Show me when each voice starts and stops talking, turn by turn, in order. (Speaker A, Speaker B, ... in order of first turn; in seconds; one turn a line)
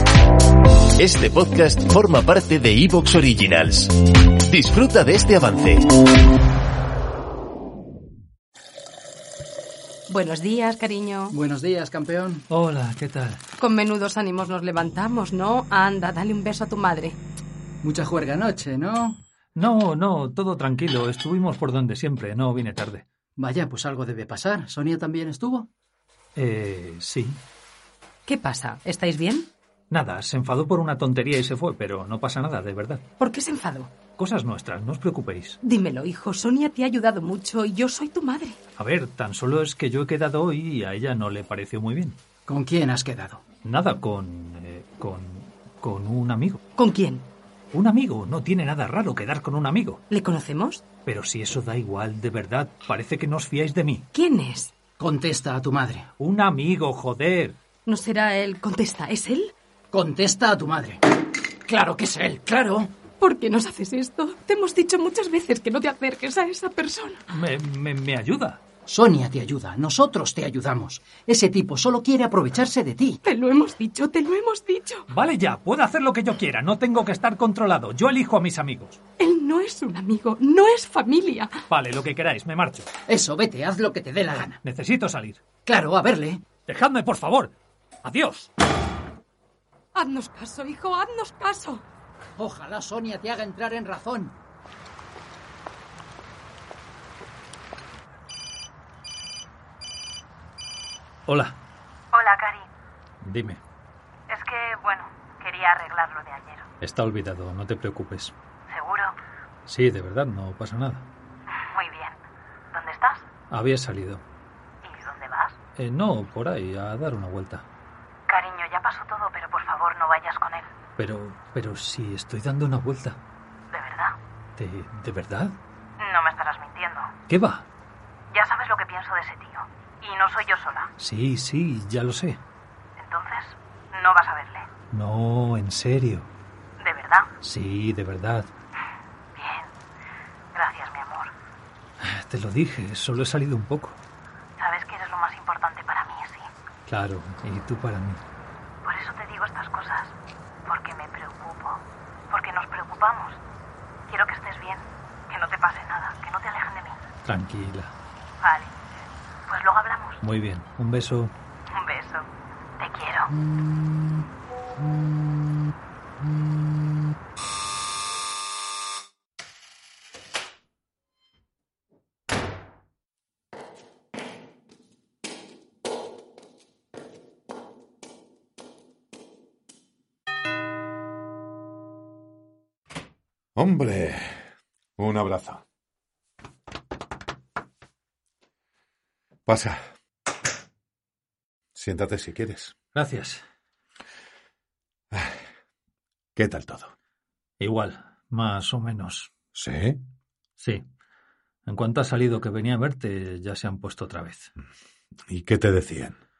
Speaker A: 1.0-3.9
Speaker A: 4.5-5.8
Speaker B: 10.1-11.3
Speaker C: 11.3-12.4
Speaker D: 12.5-13.4
Speaker B: 13.6-17.1
Speaker C: 17.8-19.2
Speaker D: 19.5-23.0
Speaker C: 23.4-25.7
Speaker D: 26.4-27.4
Speaker B: 28.3-29.5
Speaker D: 29.9-33.0
Speaker B: 33.2-33.9
Speaker D: 34.2-35.6
Speaker B: 35.6-38.5
Speaker D: 38.8-42.2
Speaker C: 42.5-43.4
Speaker D: 43.6-46.6
Speaker B: 46.8-47.3
Speaker D: 47.7-50.0
Speaker B: 50.1-50.8
Speaker D: 51.0-54.1
Speaker B: 54.1-54.7
Speaker C: 55.0-56.1
Speaker D: 56.2-57.6
Speaker B: 57.9-59.5
Speaker C: 59.9-61.0
Speaker C: 61.7-62.9
Speaker B: 63.2-67.2
Speaker D: 67.3-68.6
Speaker C: 68.9-73.2
Speaker B: 73.2-75.0
Speaker D: 75.1-79.0
Speaker B: 79.2-81.5
Speaker D: 81.7-82.9
Speaker C: 83.1-84.6
Speaker D: 84.6-85.4
Speaker C: 85.7-86.4
Speaker D: 86.7-88.5
Speaker B: 90.0-91.8
Speaker C: 92.4-94.3
Speaker D: 101.2-101.6
Speaker E: 102.1-102.7
Speaker D: 103.2-103.6
Speaker E: 104.3-106.6
Speaker D: 106.8-108.3
Speaker E: 108.7-109.1
Speaker D: 109.7-111.1
Speaker E: 111.7-112.2
Speaker E: 112.7-113.2
Speaker D: 113.5-114.2
Speaker E: 114.8-115.5
Speaker D: 115.8-117.6
Speaker E: 118.3-120.7
Speaker D: 121.0-123.2
Speaker E: 123.7-124.1
Speaker D: 124.6-125.6
Speaker E: 126.0-127.1
Speaker D: 127.3-127.7
Speaker E: 128.3-130.9
Speaker D: 131.0-132.4
Speaker E: 133.0-134.7
Speaker D: 134.9-136.3
Speaker E: 136.8-137.3
Speaker D: 137.4-138.5
Speaker E: 139.3-139.7
Speaker E: 140.5-141.3
Speaker D: 142.0-144.0
Speaker E: 144.6-146.5
Speaker D: 146.9-148.2
Speaker E: 148.8-150.1
Speaker E: 150.7-153.4
Speaker E: 154.1-157.0
Speaker D: 157.2-157.9
Speaker E: 158.4-158.7
Speaker E: 159.5-160.2
Speaker D: 160.2-161.3
Speaker E: 161.7-162.2
Speaker E: 162.8-163.3
Speaker F: 183.6-184.4
Speaker F: 185.0-185.6
Speaker F: 189.5-189.8
Speaker F: 191.7-192.7
Speaker D: 192.9-193.4
Speaker F: 196.3-196.9
Speaker D: 197.6-199.3
Speaker F: 199.5-200.0
Speaker D: 200.6-200.8
Speaker D: 201.7-204.5
Speaker F: 205.3-206.2